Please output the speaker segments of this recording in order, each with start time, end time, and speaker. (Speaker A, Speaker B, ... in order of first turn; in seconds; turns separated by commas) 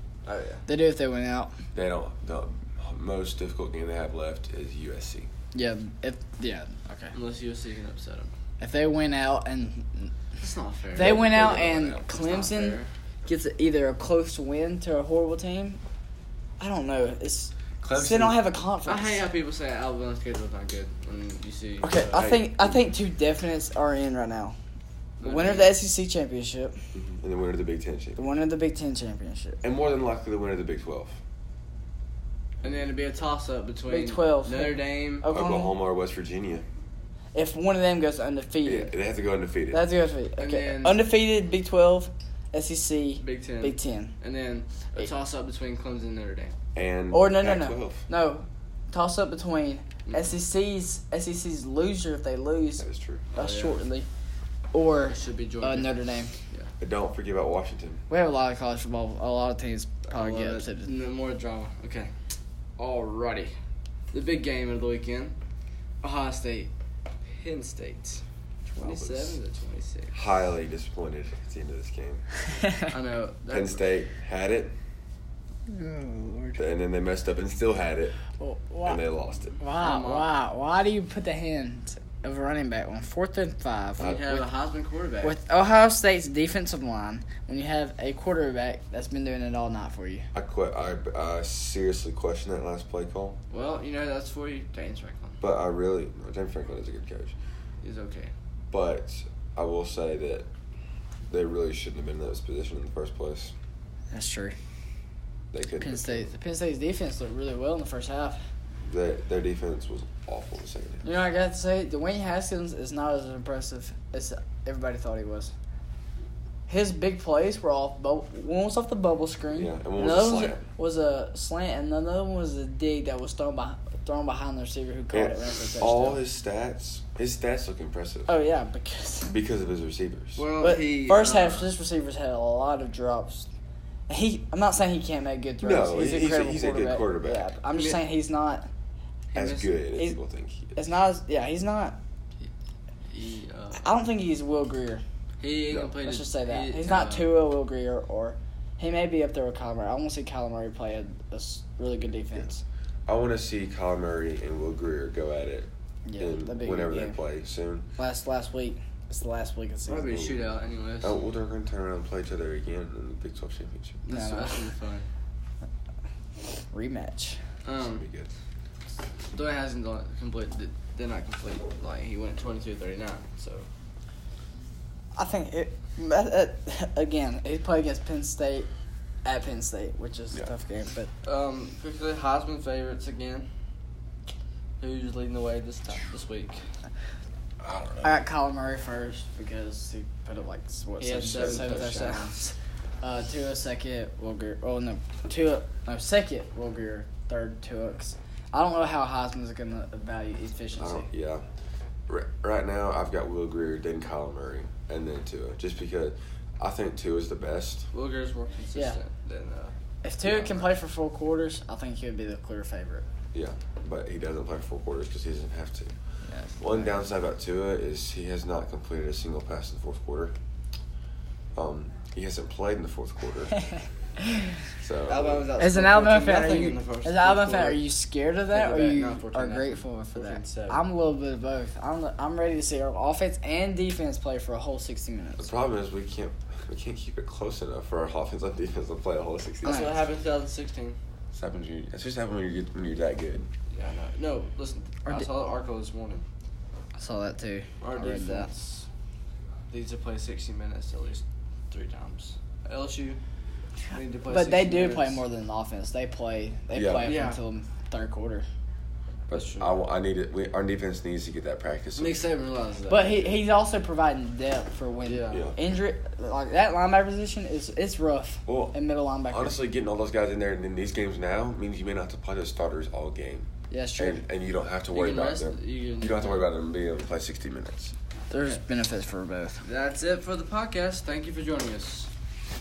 Speaker A: 0.2-0.7, Speaker B: 0.7-1.6, Speaker C: 1.7-5.3, Speaker B: 5.5-7.1, Speaker A: 7.1-8.3, Speaker B: 8.6-10.1, Speaker A: 10.4-11.2, Speaker B: 10.9-15.8, Speaker C: 11.0-12.0, Speaker A: 11.8-12.9, Speaker B: 16.6-19.2, Speaker C: 17.8-18.4, Speaker A: 18.8-22.5, Speaker B: 21.8-24.6, Speaker C: 22.1-22.5, Speaker A: 25.2-25.8, Speaker B: 25.2-26.9, Speaker C: 26.9-28.2, Speaker B: 28.1-29.6, Speaker C: 29.6-31.2, Speaker A: 32.6-35.3, Speaker B: 33.9-35.7, Speaker C: 35.3-36.6, Speaker B: 37.3-38.9, Speaker C: 38.6-39.9, Speaker B: 39.7-44.1, Speaker A: 40.4-41.0, Speaker A: 43.2-46.5, Speaker C: 46.7-48.1, Speaker B: 47.1-54.1, Speaker A: 50.0-50.3, Speaker C: 52.8-53.2, Speaker A: 53.3-53.8, Speaker B: 54.7-56.3, Speaker A: 55.1-56.7, Speaker C: 56.8-58.0, Speaker B: 58.1-60.9, Speaker A: 60.0-62.1, Speaker A: 62.8-63.5, Speaker A: 64.1-65.4, Speaker A: 66.0-66.7, Speaker A: 67.3-68.2, Speaker C: 68.7-69.4, Speaker A: 68.8-70.2, Speaker C: 70.1-72.2, Speaker A: 72.9-73.8, Speaker C: 73.5-74.7, Speaker B: 75.7-76.6, Speaker C: 76.6-78.2, Speaker B: 78.4-79.0, Speaker C: 78.8-79.6, Speaker B: 79.6-84.4, Speaker A: 79.8-80.3, Speaker A: 84.0-85.4, Speaker C: 84.0-84.3, Speaker B: 85.2-90.3, Speaker C: 90.3-93.4, Speaker A: 93.5-95.4, Speaker C: 95.4-97.3, Speaker A: 97.8-98.3, Speaker C: 98.7-100.5, Speaker C: 101.3-103.5, Speaker B: 104.1-104.5, Speaker C: 105.5-106.3, Speaker B: 105.8-108.4, Speaker C: 108.8-111.0, Speaker B: 111.0-115.5, Speaker B: 116.7-126.2, Speaker C: 119.5-120.7, Speaker C: 125.1-128.3, Speaker B: 128.3-129.3, Speaker C: 129.2-130.4, Speaker A: 130.3-131.7, Speaker B: 130.6-133.5, Speaker B: 134.1-138.7, Speaker C: 135.6-137.5, Speaker A: 137.7-138.0, Speaker A: 139.3-139.8, Speaker C: 139.3-140.8, Speaker B: 140.7-142.0, Speaker A: 143.1-143.9, Speaker B: 143.7-145.0, Speaker A: 145.4-147.4, Speaker B: 146.0-152.6, Speaker C: 153.1-157.9, Speaker B: 156.1-157.2, Speaker B: 158.0-160.3, Speaker A: 159.9-161.2, Speaker C: 160.1-160.5, Speaker C: 161.0-164.0, Speaker A: 164.1-165.1, Speaker B: 164.1-164.7, Speaker B: 166.5-167.4, Speaker A: 167.6-168.1, Speaker C: 167.8-168.3, Speaker A: 169.3-173.7, Speaker B: 175.1-178.7, Speaker B: 179.2-181.1, Speaker A: 181.2-183.5, Speaker A: 184.8-186.7, Speaker C: 187.6-188.2, Speaker B: 188.0-201.1, Speaker A: 191.0-192.3, Speaker C: 191.2-192.1, Speaker C: 200.8-201.4, Speaker C: 202.1-207.9, Speaker A: 207.9-209.7, Speaker B: 210.0-213.0, Speaker C: 210.2-210.7, Speaker C: 213.3-215.9, Speaker B: 216.3-216.9, Speaker C: 216.6-220.3, Speaker C: 221.5-223.5, Speaker C: 224.8-225.5, Speaker A: 225.1-227.8, Speaker B: 225.6-235.5, Speaker A: 228.5-230.8, Speaker C: 235.4-240.0, Speaker B: 239.6-240.1, Speaker A: 239.6-241.0, Speaker C: 241.3-243.5, Speaker A: 243.7-246.2, Speaker B: 246.9-248.5, Speaker A: 247.8-248.9, Speaker A: 249.7-253.2, Speaker A: 253.9-255.2, Speaker B: 253.9-258.4, Speaker C: 256.7-257.2, Speaker A: 257.0-257.4, Speaker C: 259.3-262.2, Speaker A: 259.3-259.8, Speaker A: 261.9-263.4, Speaker B: 262.9-269.6, Speaker A: 265.1-265.5, Speaker C: 265.3-265.6, Speaker C: 268.4-277.9, Speaker B: 273.7-274.2, Speaker A: 274.9-276.5, Speaker B: 278.3-279.6, Speaker A: 279.6-282.1